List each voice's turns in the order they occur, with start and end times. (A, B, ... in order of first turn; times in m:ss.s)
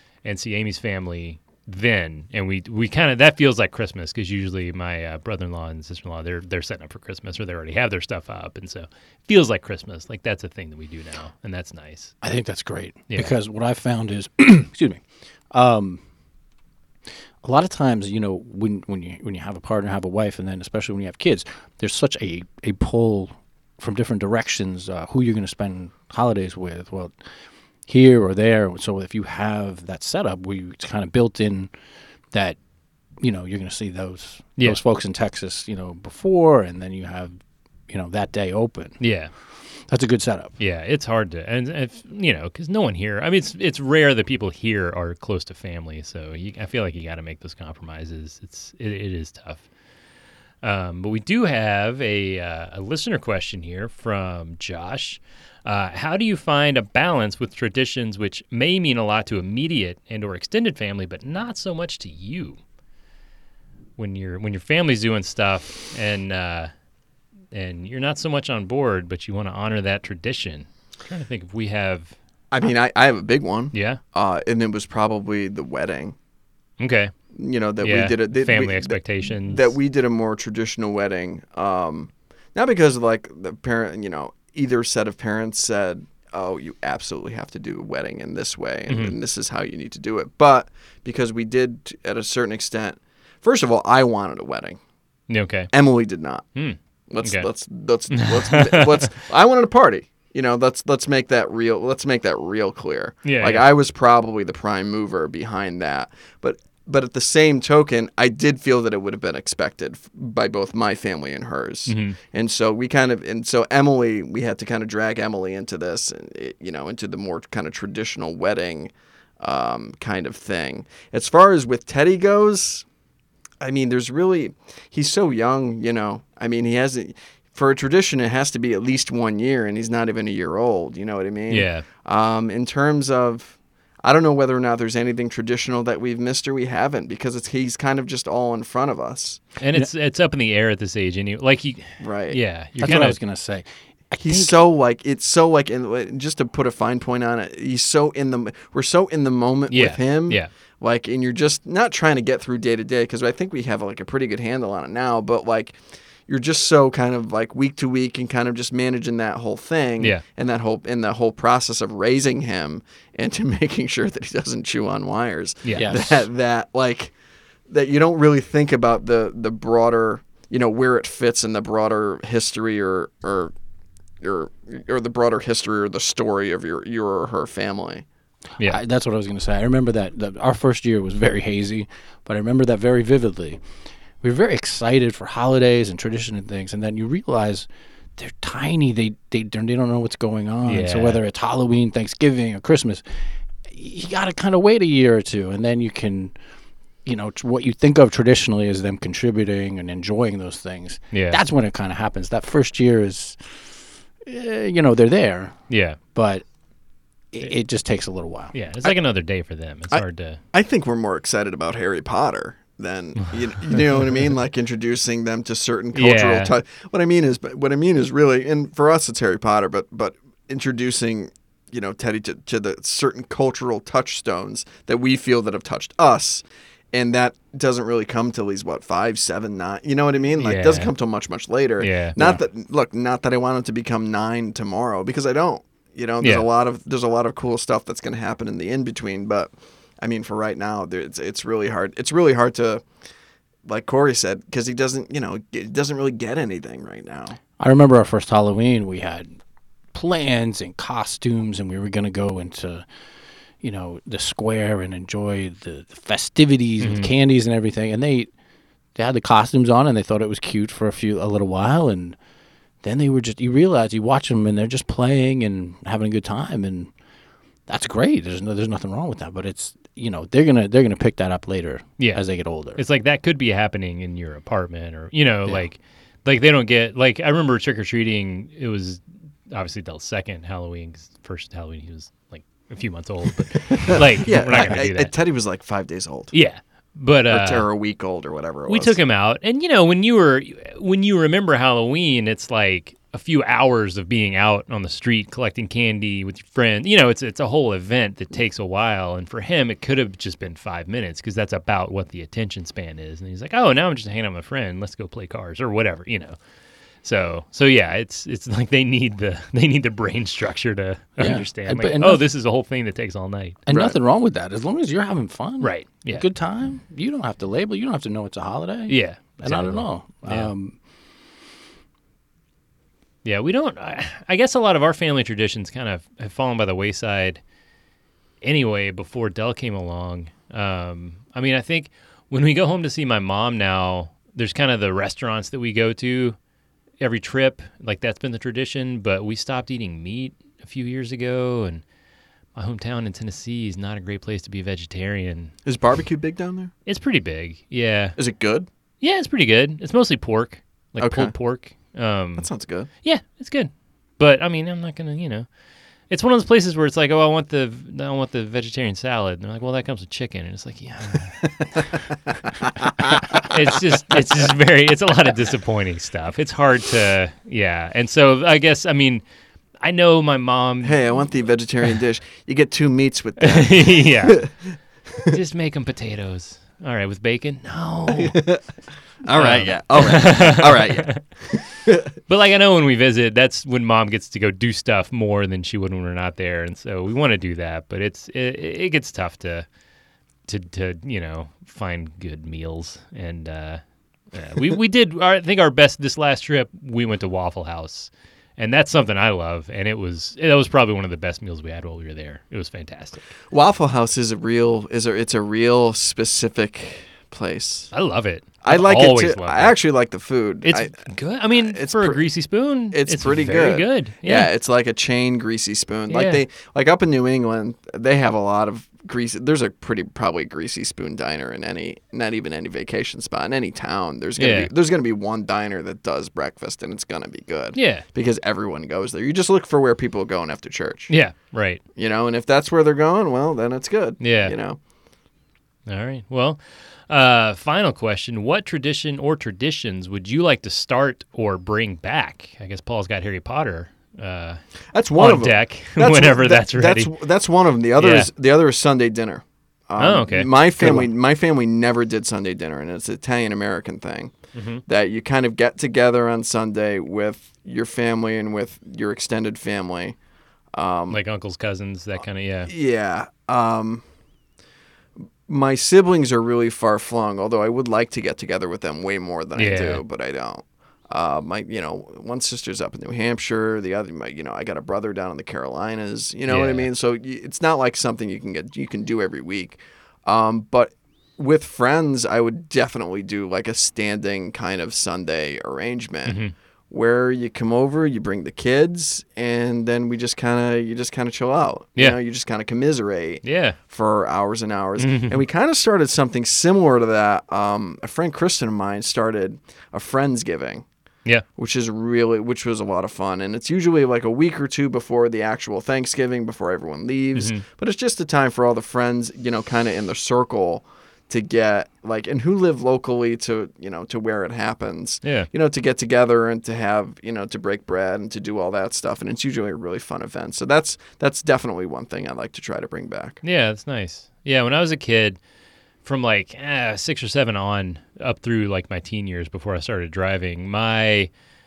0:00.2-0:12.1 A
0:12.2-0:16.0 B
0:17.4-0:27.1 B
0:27.9-0:31.7 B
0:32.3-0:32.6 B
0:33.2-0:37.4 B
0:37.9-0:39.0 B
0:39.0-0:39.3 A
0:39.9-0:40.6 B
0:40.6-0:49.6 A
0:50.6-1:02.6 A
1:04.0-1:06.7 A
1:07.5-1:12.1 A
1:12.5-1:16.1 C
1:13.7-1:14.0 A
1:16.8-1:17.1 A
1:17.3-1:34.8 C
1:17.8-1:19.7 A
1:28.9-1:29.1 A
1:35.3-1:35.7 A
1:35.7-1:36.4 C
1:36.5-1:37.5 A
1:37.1-2:02.8 C
1:38.1-1:39.1 A
1:43.2-1:43.6 A
1:51.9-1:52.2 A
2:03.6-2:19.4 C
2:11.5-2:11.8 A
2:19.6-2:23.2 A
2:22.0-2:23.0 C
2:22.8-2:24.6 B
2:24.2-2:35.7 C
2:29.7-2:30.5 A
2:36.3-2:47.1 C
2:45.6-2:45.9 A
2:45.8-2:46.2 B
2:47.7-2:53.5 C
2:54.2-2:58.0 C
2:58.6-3:03.6 B
3:04.2-3:13.0 B
3:10.6-3:11.2 A
3:13.7-3:16.3 B
3:17.0-3:25.6 B
3:21.1-3:21.4 A
3:25.7-3:26.0 A
3:26.1-3:26.4 B
3:27.3-3:28.5 B
3:28.5-3:30.4 A
3:29.9-4:02.8 C
3:35.9-3:36.5 A
3:50.4-3:50.9 A
3:51.8-3:52.4 A
3:56.2-3:56.4 A
4:03.6-4:07.4 C
4:07.6-4:09.4 B
4:09.9-4:12.8 B
4:13.6-4:18.3 B
4:16.8-4:17.1 A
4:19.0-4:22.2 B
4:22.8-4:26.9 B
4:27.7-4:32.8 B
4:32.8-4:45.1 A
4:43.7-4:46.3 C
4:46.3-4:47.7 A
4:47.3-4:49.0 C
4:48.7-5:06.4 A
5:07.0-5:13.6 A
5:11.2-5:12.2 B
5:13.7-5:20.8 B
5:13.7-5:14.0 C
5:15.6-5:16.3 A
5:18.9-5:20.5 A
5:23.2-5:27.4 A
5:28.4-5:36.4 A
5:37.0-5:41.8 A
5:42.6-5:45.5 A
5:45.6-5:46.7 C
5:46.8-5:48.2 A
5:48.2-5:48.7 C
5:49.0-5:52.5 A
5:51.0-5:51.3 C
5:52.4-5:52.9 C
5:53.0-5:55.4 A
5:56.1-6:01.4 A
6:02.8-6:03.5 C
6:03.2-6:09.2 A
6:09.8-6:11.0 A
6:10.8-6:14.5 C
6:13.4-6:14.4 A
6:15.2-6:18.4 A
6:18.1-6:18.6 C
6:19.2-6:22.0 C
6:19.3-6:21.2 A
6:22.3-6:29.6 A
6:30.5-6:33.8 A
6:34.3-6:43.3 A
6:43.5-6:47.9 C
6:47.9-6:49.8 A
6:48.6-6:52.2 C
6:50.6-6:54.5 A
6:52.9-7:11.1 C
6:56.1-6:56.4 A
7:04.4-7:04.7 A
7:07.7-7:08.0 A
7:11.1-7:11.8 A
7:12.0-7:14.8 C
7:14.2-7:14.5 A
7:15.9-7:24.6 A
7:24.9-7:34.3 C
7:25.2-7:27.1 A
7:28.0-7:28.3 A
7:30.0-7:31.0 A
7:30.8-7:31.1 B
7:34.5-7:34.8 A
7:34.8-7:40.2 C
7:40.7-7:41.2 C
7:41.1-7:42.7 A
7:42.7-7:44.0 C
7:45.5-8:06.4 C
7:49.6-7:50.0 A
7:56.5-7:56.9 A
8:06.2-8:06.5 A
8:06.9-8:20.8 C
8:13.4-8:13.8 A
8:15.0-8:15.4 A
8:21.6-8:43.4 C
8:27.3-8:27.6 A
8:43.4-8:45.4 A
8:46.0-8:51.3 A